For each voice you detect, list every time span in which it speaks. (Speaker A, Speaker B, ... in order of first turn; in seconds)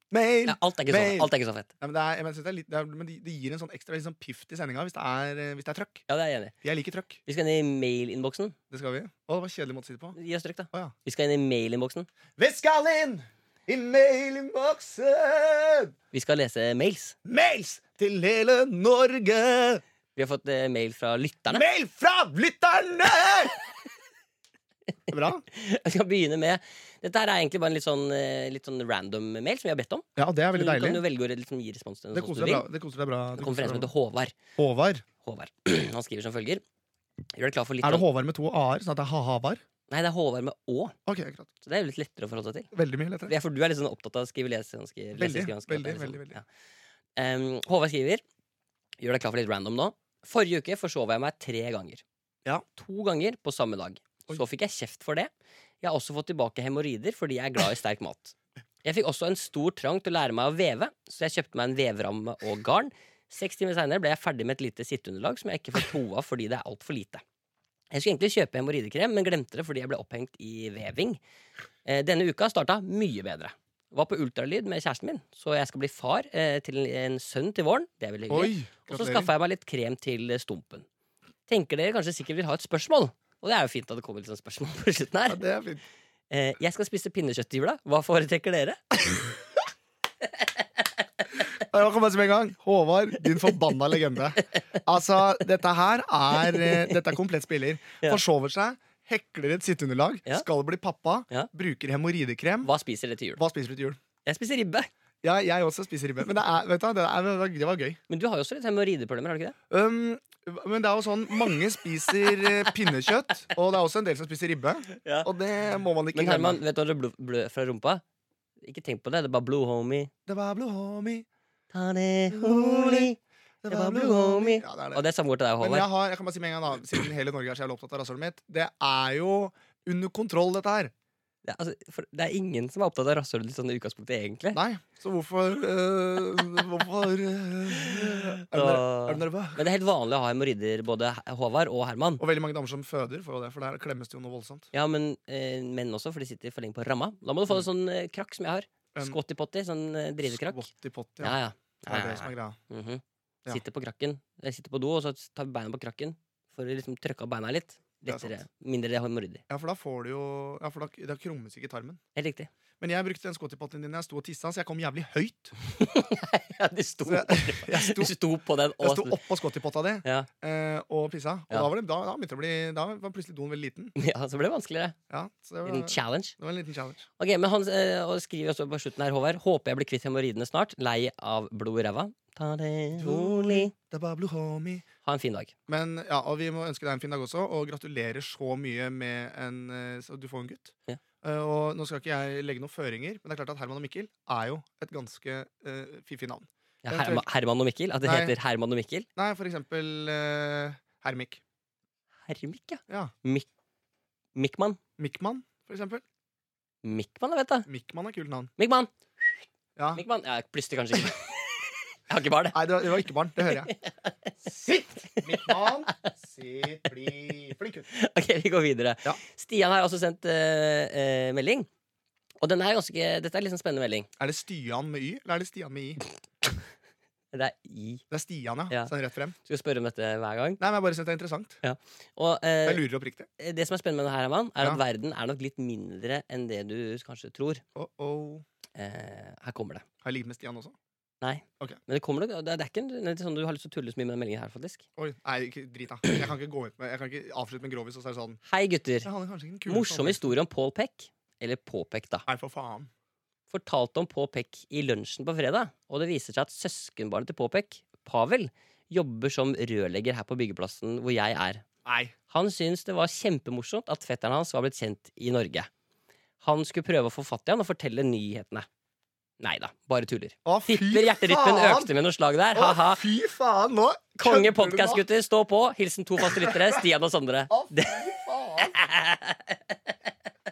Speaker A: 0.1-6.0, 6.6-7.2, 8.7-10.2, 12.4-15.9, 17.2-19.8, 21.5-23.5, 25.1-25.4, 30.1-31.0, 32.1-33.9, 34.6-35.0, 37.8-39.6, 41.0-41.5, 42.7-43.3, 45.1-46.4, 78.3-79.3, 85.3-85.8, 91.5-102.7, 103.3-104.0, 105.2-108.0, 109.7-116.6, 120.3-121.3, 122.3-125.0, 125.6-130.9, 134.5-139.7, 142.2-144.7, 150.2-152.6, 158.1-158.4, 159.5-162.0, 162.8-165.5, 167.1-168.1, 168.8-173.9, 175.1-177.1, 183.0-184.8, 185.7-197.2, 198.0-198.3, 199.2-201.4, 202.9-203.1, 205.0-206.0, 207.7-208.5, 209.8-210.0, 212.5-213.7, 214.4-217.9, 224.2-226.0, 228.1-229.3, 230.6-231.6, 232.6-233.3, 237.7-238.4, 240.0-240.8, 245.0-248.4, 249.0-250.3, 252.2-252.9, 261.8-262.1, 270.4-271.9, 272.5-275.0, 276.2-276.8, 277.5-278.7
Speaker B: 0.4-1.7, 6.1-6.5, 7.2-8.5, 10.1-12.1, 16.1-17.1, 20.1-21.6, 25.5-32.7, 33.4-34.3, 35.2-36.6, 37.3-38.0, 39.9-41.0, 41.6-42.7, 43.2-46.4, 47.2-48.2, 49.0-52.0, 52.8-55.3, 55.8-67.2, 67.9-71.2, 71.8-80.8, 81.5-85.4, 86.3-89.2, 96.4-96.9, 102.6-103.4, 104.2-104.9, 108.1-109.5, 115.0-115.3, 116.1-118.0, 118.6-120.1, 121.7-125.9, 131.4-134.6, 137.8-142.2, 144.7-150.7, 151.2-159.4, 162.1-162.5, 165.8-169.2, 173.9-174.9, 175.6-176.3, 177.2-183.7, 185.0-185.5, 196.8-199.1, 202.3-203.5, 204.3-204.8, 206.8-207.7, 208.6-208.9, 209.9-211.3, 212.1-212.7, 213.6-214.1, 215.3-216.1, 217.9-221.7, 222.4-224.1, 227.3-228.0, 229.4-230.6, 231.6-232.8, 233.4-237.6, 238.7-239.8, 241.2-244.8, 248.4-249.1, 249.7-252.2, 253.5-261.6, 262.3-265.7, 266.4-268.7, 269.4-273.0, 274.2-278.1, 278.6-279.9